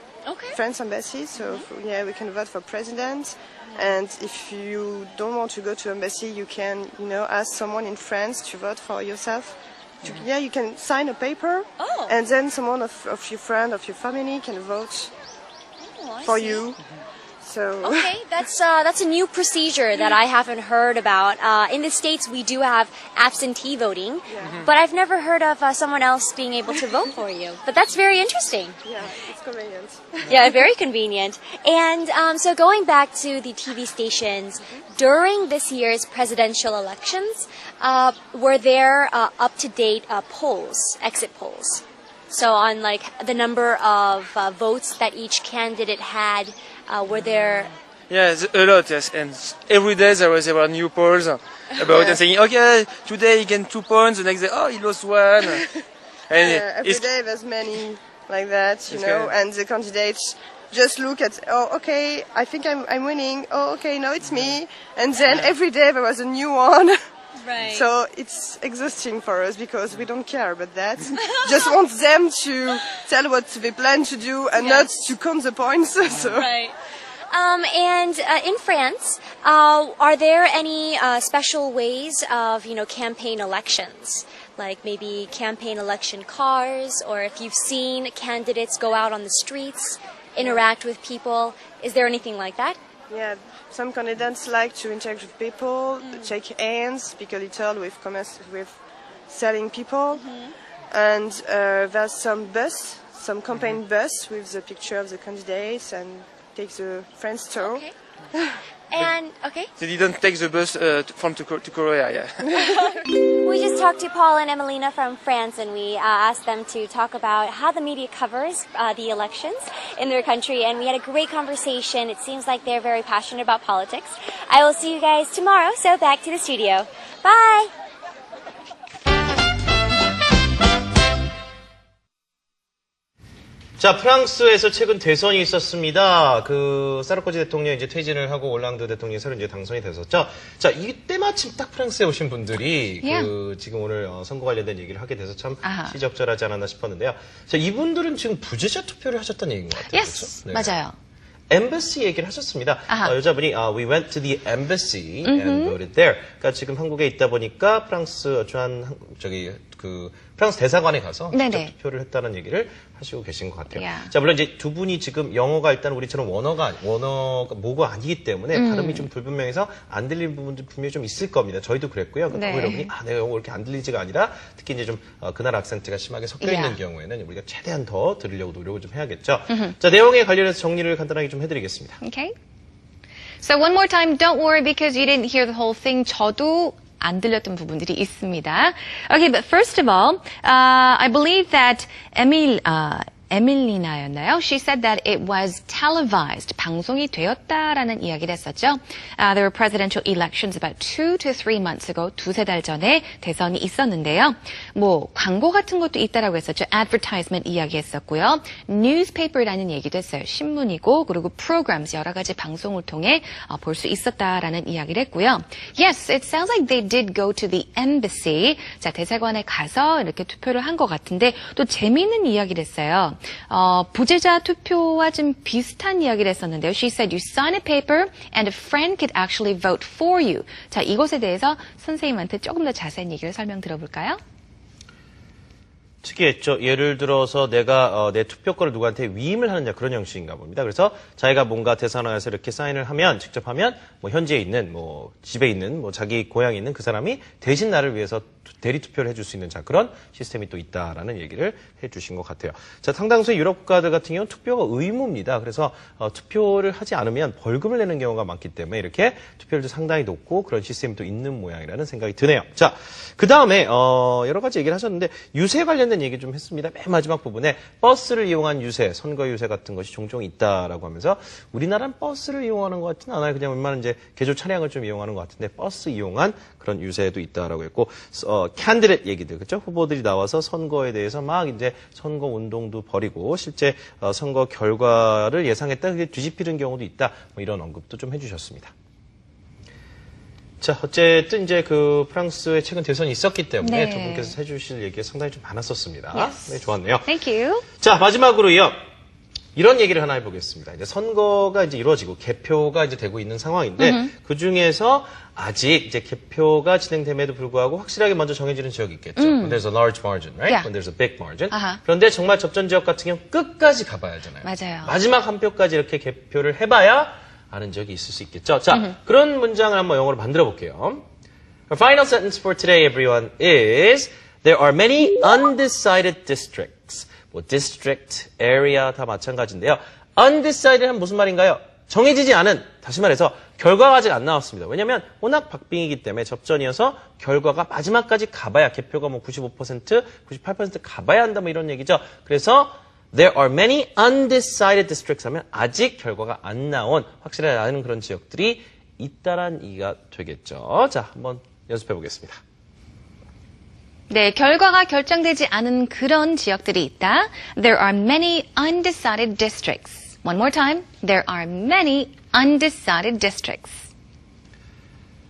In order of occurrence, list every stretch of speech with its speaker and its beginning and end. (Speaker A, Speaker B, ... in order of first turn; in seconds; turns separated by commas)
Speaker A: 0.2-0.6, Speaker B: 0.5-15.1, Speaker A: 1.4-1.6, Speaker A: 11.8-12.1, Speaker A: 15.8-16.6, Speaker B: 16.2-16.8, Speaker B: 17.4-18.1, Speaker A: 17.8-28.8, Speaker B: 24.3-24.6, Speaker B: 28.8-30.6, Speaker A: 30.2-47.7, Speaker C: 48.1-55.6, Speaker B: 51.9-52.2, Speaker C: 56.3-57.1, Speaker B: 56.4-67.0, Speaker C: 58.9-59.3, Speaker C: 65.3-65.5, Speaker A: 67.4-67.9, Speaker B: 67.6-76.5, Speaker A: 71.1-71.7, Speaker A: 74.5-74.9, Speaker A: 76.2-76.8, Speaker A: 77.3-92.8, Speaker B: 90.4-90.7, Speaker B: 93.1-98.8, Speaker A: 96.0-96.3, Speaker B: 99.3-100.2, Speaker A: 100.1-100.5, Speaker B: 100.9-108.6, Speaker A: 107.6-107.9, Speaker A: 108.9-109.7, Speaker C: 109.8-112.5, Speaker A: 112.5-127.7, Speaker D: 133.8-150.8, Speaker E: 143.0-143.3, Speaker E: 145.6-145.9, Speaker E: 149.9-150.9, Speaker D: 151.5-182.0, Speaker E: 155.2-155.8, Speaker E: 161.3-161.7, Speaker E: 163.7-164.1, Speaker E: 168.5-169.1, Speaker E: 172.3-172.9, Speaker E: 176.4-176.8, Speaker E: 179.5-179.7, Speaker E: 182.0-182.3, Speaker E: 183.4-234.2, Speaker D: 236.0-288.7, Speaker D: 290.6-297.1, Speaker E: 293.6-294.4, Speaker E: 296.1-297.6, Speaker D: 297.7-298.8, Speaker D: 299.6-321.0, Speaker E: 303.8-304.1, Speaker E: 309.2-309.6, Speaker E: 311.5-311.8, Speaker E: 314.4-314.9, Speaker D: 321.7-352.4, Speaker E: 354.1-363.8